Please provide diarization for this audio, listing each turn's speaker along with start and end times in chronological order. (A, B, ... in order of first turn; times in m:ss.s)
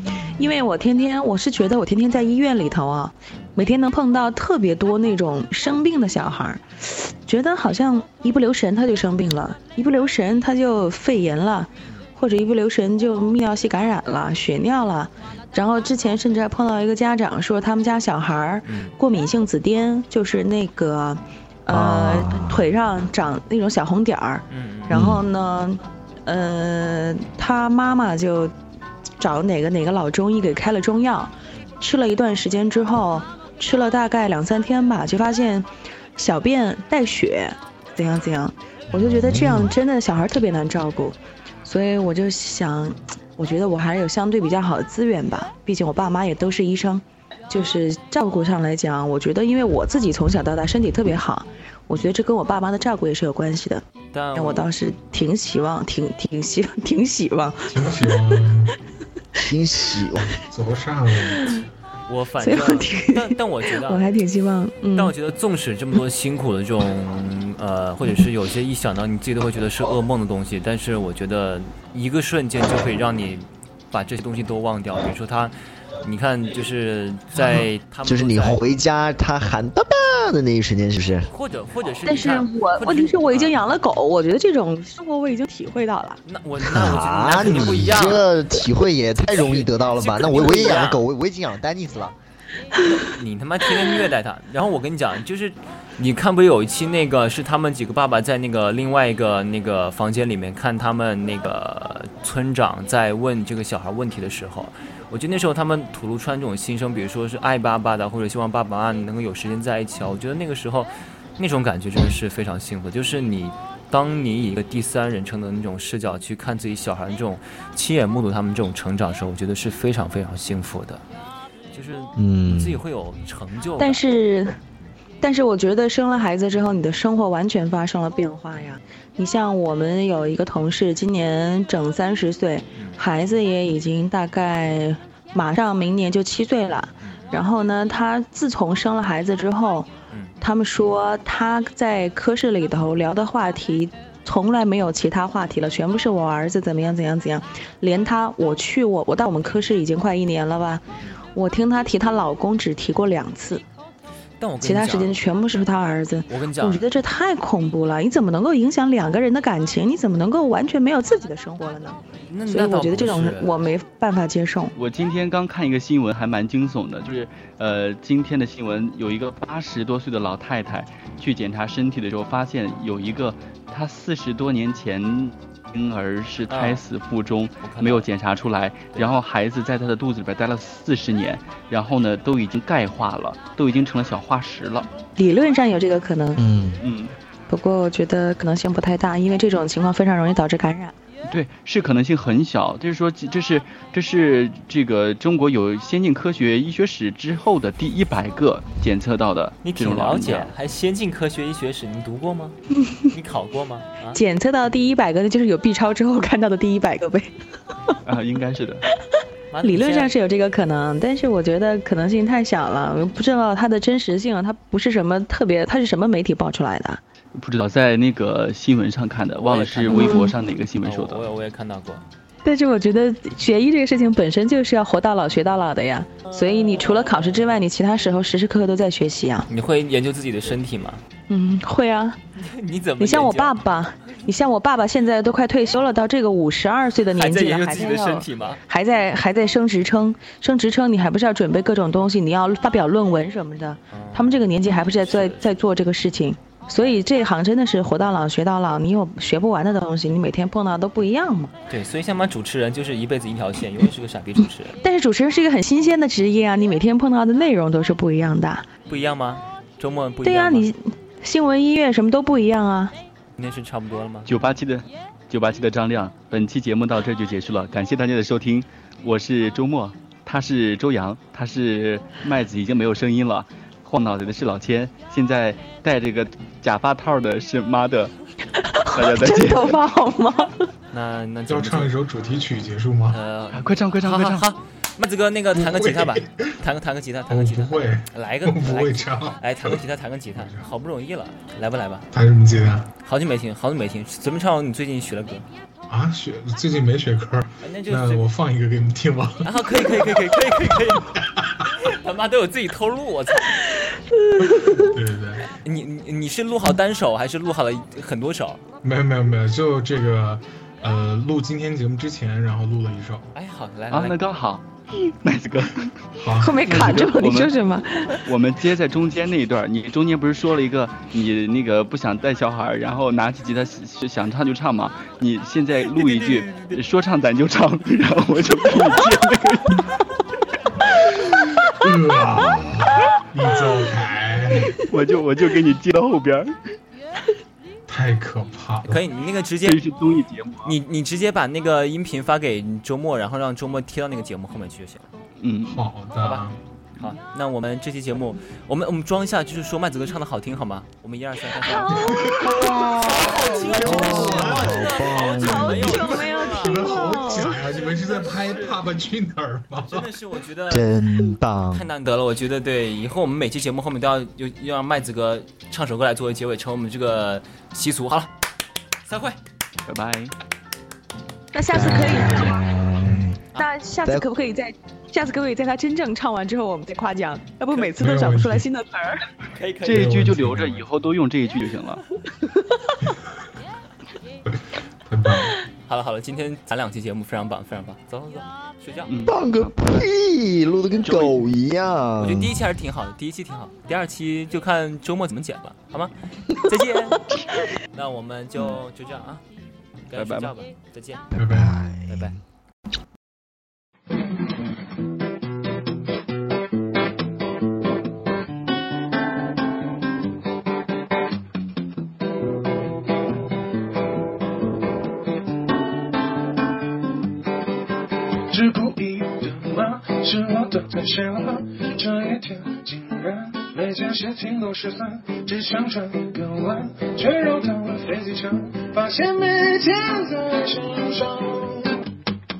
0:00.2-0:28.6 A
0:18.7-0:19.0 B
0:21.7-0:22.7 C
0:24.5-0:25.0 B
0:24.9-0:25.2 C
0:29.2-0:58.5 A
0:38.9-0:39.8 C
0:54.1-0:54.7 B
0:57.7-0:58.8 D
0:59.4-1:00.4 C
1:00.4-1:01.8 D
1:01.2-1:01.6 A
1:02.1-1:04.1 B
1:02.4-1:05.2 A
1:05.0-1:18.6 B
1:17.4-1:21.3 C
1:21.3-1:23.6 B
1:22.0-1:26.2 A
1:26.3-1:28.3 B
1:26.6-1:32.2 C
1:29.3-1:31.0 B
1:32.8-1:33.0 A
1:32.9-2:01.0 B
2:01.7-2:04.0 B
2:02.2-2:02.8 C
2:03.8-2:04.6 A
2:05.2-2:19.9 A
2:17.0-2:17.4 B
2:20.1-2:20.4 B
2:20.4-2:33.6 A
2:34.4-2:35.2 B
2:34.6-2:44.7 A
2:36.3-2:36.8 B
2:42.3-2:43.6 B
2:44.8-3:04.9 E
2:56.5-2:56.8 B
2:57.6-2:58.1 B
3:05.2-3:06.4 A
3:06.4-3:06.8 C
3:06.8-3:07.2 E
3:07.5-3:11.0 A
3:11.3-3:20.5 E
3:19.6-3:24.2 B
3:24.2-3:27.9 A
3:28.0-3:28.8 E
3:29.1-3:37.0 A
3:29.5-3:30.2 B
3:37.4-3:41.2 E
3:39.4-3:40.3 B
3:39.9-3:40.3 A
3:40.8-3:42.0 B
3:42.4-3:49.5 A
3:47.1-3:47.4 B
3:49.5-3:51.0 B
3:51.3-3:52.2 A
3:52.4-3:53.6 B
3:53.0-4:11.6 A
3:57.1-3:58.6 B
4:03.9-4:05.5 B
4:11.7-4:14.8 B
4:14.8-4:18.7 A
4:18.9-4:20.7 B
4:20.2-4:22.9 A
4:23.4-4:24.3 B
4:24.3-4:38.1 E
4:38.5-4:40.7 A
4:38.9-4:39.8 E
4:40.9-4:42.1 B
4:41.5-4:43.2 D
4:43.1-4:52.1 B
4:43.5-4:44.5 E
4:45.5-4:46.6 D
4:47.3-4:49.8 D
4:50.4-4:50.7 D
4:52.1-4:52.9 D
4:53.0-4:55.5 B
4:55.9-5:00.3 D
4:57.6-4:58.3 B
4:59.4-5:03.6 B
5:00.9-5:01.7 D
5:04.3-5:04.8 A
5:04.4-5:05.5 D
5:05.5-5:08.6 B
5:08.8-5:13.3 D
5:13.3-5:14.3 B
5:13.9-5:16.1 E
5:16.2-5:16.8 D
5:16.4-5:18.3 A
5:16.6-5:17.6 E
5:18.2-5:30.0 E
5:25.9-5:26.8 B
5:30.9-5:34.8 D
5:34.9-5:36.6 E
5:37.9-5:39.0 D
5:38.9-5:39.8 B
5:39.6-5:40.8 E
5:40.6-5:45.1 B
5:45.4-5:45.8 E
5:45.7-5:46.6 D
5:46.2-5:52.3 B
5:51.6-5:53.8 A
5:51.9-5:54.8 D
5:53.0-5:58.8 B
5:53.8-5:56.0 C
5:55.2-5:57.6 A
5:55.9-6:00.1 D
5:59.8-6:01.0 B
6:00.7-6:01.9 C
6:01.7-6:08.3 B
6:09.0-6:09.4 B
6:09.9-6:10.3 E
6:11.5-6:12.7 A
6:11.7-6:13.4 C
6:11.7-6:13.3 D
6:13.6-6:19.3 A
6:18.0-6:18.7 D
6:19.5-6:20.1 B
6:19.8-6:22.0 E
6:19.9-6:20.9 D
6:22.5-6:23.0 A
6:24.5-6:25.6 D
6:25.9-6:29.2 B
6:29.1-6:29.8 E
6:29.2-6:32.6 C
6:31.0-6:31.5 E
6:32.2-6:39.4 B
6:40.1-6:41.3 B
6:40.2-6:40.5 E
6:41.3-6:42.4 C
6:41.4-6:41.8 D
6:42.1-6:42.3 B
6:58.5-7:12.0 F